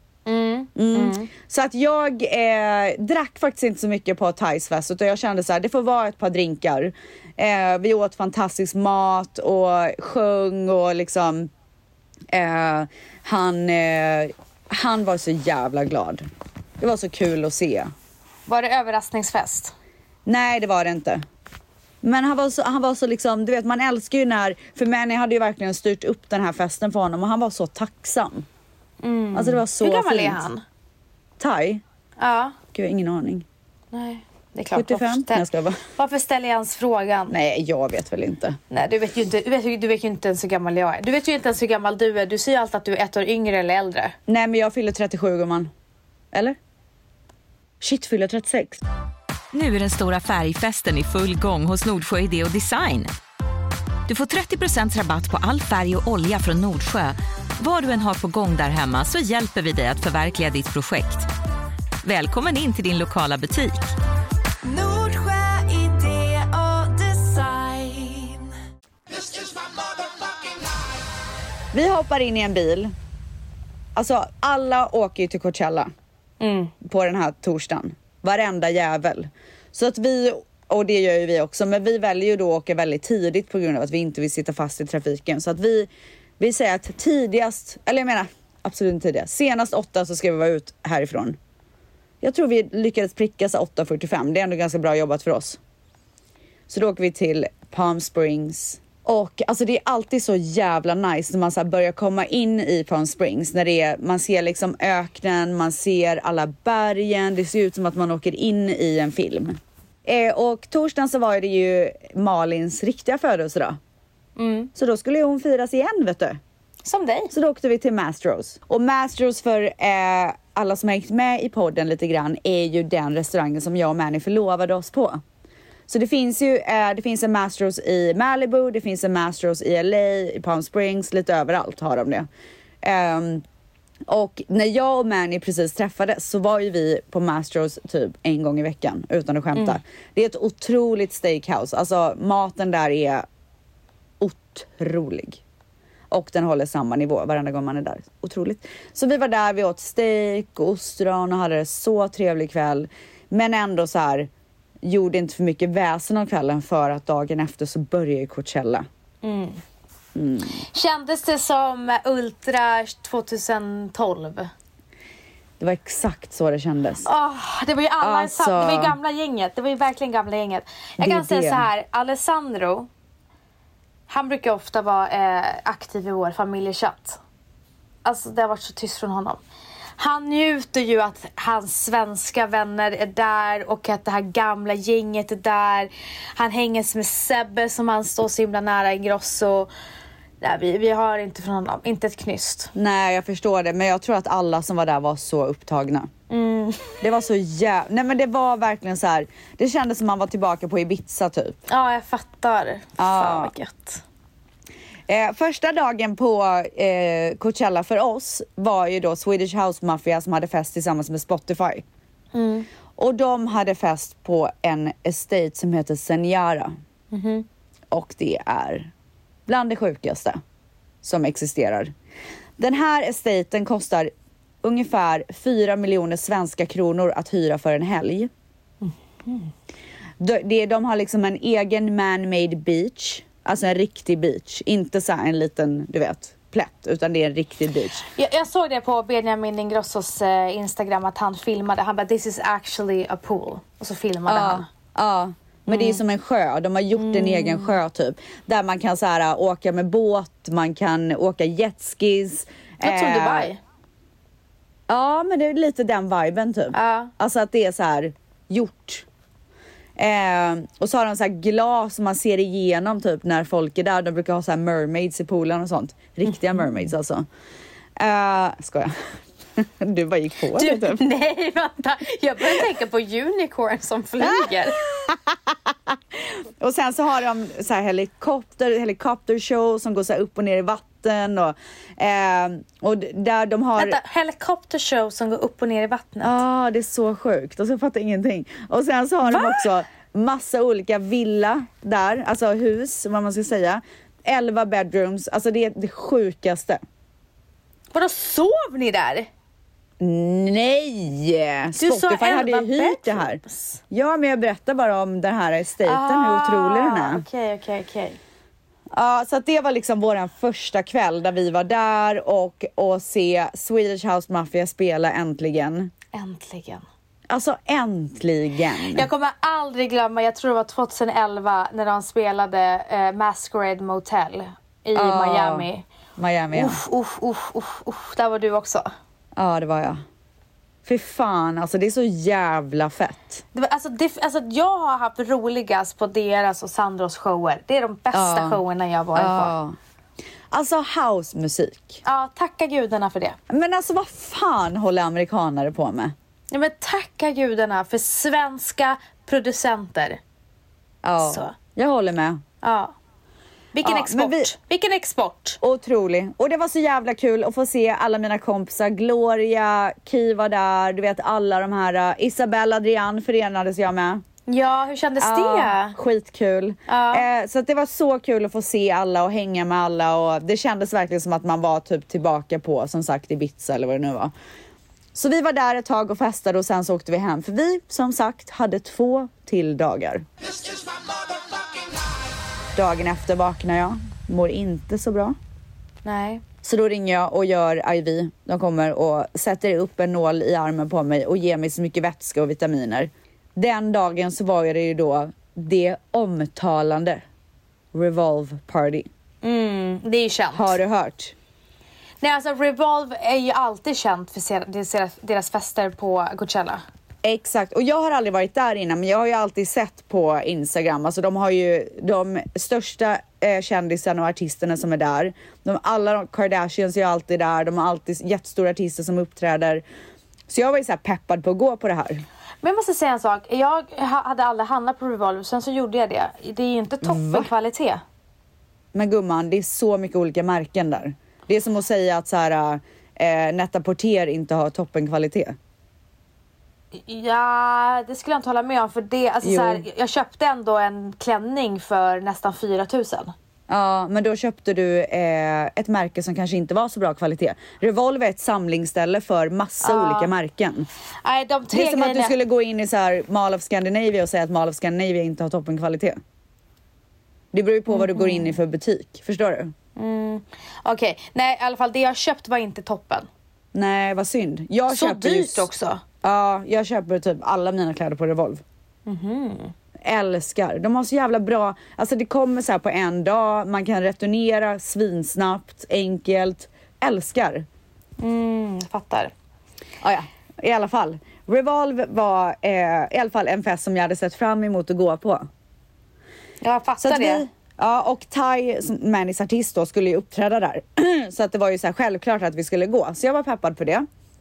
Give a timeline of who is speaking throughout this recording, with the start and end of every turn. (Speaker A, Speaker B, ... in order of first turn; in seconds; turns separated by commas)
Speaker A: 0.3-1.3, Speaker B: 0.8-11.5, Speaker B: 12.3-16.3, Speaker B: 16.8-17.9, Speaker A: 18.5-19.7, Speaker B: 20.3-21.2, Speaker B: 22.0-28.5, Speaker A: 29.0-30.6, Speaker B: 29.3-30.4, Speaker B: 31.4-31.8, Speaker A: 32.2-32.6, Speaker B: 32.7-33.5, Speaker A: 33.9-37.4, Speaker B: 34.7-35.8, Speaker B: 37.3-38.6, Speaker A: 38.7-44.1, Speaker B: 44.3-45.7, Speaker B: 46.3-46.6, Speaker B: 47.8-48.8, Speaker C: 49.5-53.1, Speaker C: 54.1-61.3, Speaker C: 62.0-64.0, Speaker A: 64.7-68.5, Speaker B: 71.7-72.9, Speaker B: 74.0-75.9, Speaker A: 76.4-76.7, Speaker B: 76.8-85.9, Speaker B: 86.4-91.4, Speaker B: 92.2-95.6, Speaker B: 96.7-113.8, Speaker A: 114.4-114.7, Speaker B: 114.8-116.4, Speaker A: 116.8-117.3, Speaker B: 117.3-125.2, Speaker B: 125.9-132.3, Speaker B: 132.8-133.4, Speaker B: 134.1-143.3, Speaker B: 144.2-145.4, Speaker B: 146.1-154.3, Speaker B: 154.8-158.9, Speaker A: 159.2-159.6, Speaker B: 160.2-160.6, Speaker A: 160.6-164.5, Speaker B: 165.6-167.1, Speaker A: 167.1-172.9, Speaker B: 168.0-168.9, Speaker B: 171.0-171.7, Speaker A: 174.1-177.2, Speaker A: 178.1-179.4, Speaker A: 180.0-189.7, Speaker A: 190.4-192.7, Speaker B: 192.8-196.1, Speaker A: 196.3-197.0, Speaker B: 197.0-201.6, Speaker A: 201.7-204.0, Speaker B: 203.0-203.5, Speaker B: 205.1-211.8, Speaker A: 212.3-212.7, Speaker B: 213.0-216.7, Speaker A: 217.1-217.5, Speaker B: 217.9-218.9, Speaker B: 219.5-220.4, Speaker B: 221.0-221.9, Speaker B: 222.6-224.1, Speaker B: 224.6-228.3, Speaker A: 228.8-229.5, Speaker B: 230.2-238.1, Speaker A: 238.2-244.7, Speaker B: 244.3-253.5, Speaker A: 245.7-246.0, Speaker A: 247.0-247.8, Speaker A: 252.8-253.6, Speaker B: 254.9-259.1, Speaker A: 256.7-257.1, Speaker B: 260.0-267.2, Speaker B: 268.0-271.0, Speaker A: 270.5-274.8, Speaker B: 274.2-284.0, Speaker A: 283.8-286.4, Speaker B: 286.2-296.8, Speaker A: 289.2-289.7, Speaker A: 297.9-299.3, Speaker B: 300.0-307.2, Speaker A: 301.8-303.8, Speaker A: 305.8-308.2, Speaker B: 308.9-315.9, Speaker A: 316.1-316.8, Speaker B: 317.3-319.1, Speaker A: 318.8-325.9, Speaker B: 324.9-326.8, Speaker A: 326.5-328.9, Speaker B: 329.4-330.0, Speaker B: 330.9-333.4, Speaker A: 333.5-339.5, Speaker B: 338.1-338.6, Speaker B: 339.1-339.8, Speaker B: 340.5-342.0, Speaker A: 342.0-343.4, Speaker B: 343.5-346.1, Speaker A: 346.5-350.2, Speaker B: 351.0-352.4, Speaker A: 351.2-351.5, Speaker A: 352.6-352.9, Speaker A: 353.7-355.6, Speaker B: 353.8-354.5, Speaker B: 355.6-364.2, Speaker A: 364.5-366.0, Speaker B: 365.2-374.3, Speaker A: 366.9-367.3, Speaker B: 375.1-380.3, Speaker B: 382.8-385.4, Speaker A: 386.1-386.4, Speaker B: 386.6-397.2, Speaker B: 397.9-399.1, Speaker A: 399.4-400.8, Speaker B: 400.5-401.3, Speaker A: 402.2-406.8, Speaker B: 407.2-419.8, Speaker B: 420.5-422.2, Speaker A: 422.6-428.0, Speaker B: 427.0-427.5, Speaker B: 428.9-435.6, Speaker A: 436.9-443.3, Speaker B: 439.4-439.8, Speaker B: 443.7-450.9, Speaker A: 449.8-450.3, Speaker A: 451.2-452.3, Speaker B: 451.7-456.2, Speaker B: 457.5-459.7, Speaker A: 457.9-458.6, Speaker A: 460.0-463.3, Speaker B: 463.7-465.7, Speaker A: 464.9-466.0, Speaker B: 466.2-468.6, Speaker A: 469.1-469.7, Speaker B: 470.0-477.7, Speaker A: 478.2-479.3, Speaker B: 480.0-485.5, Speaker A: 486.6-487.4, Speaker B: 487.0-494.1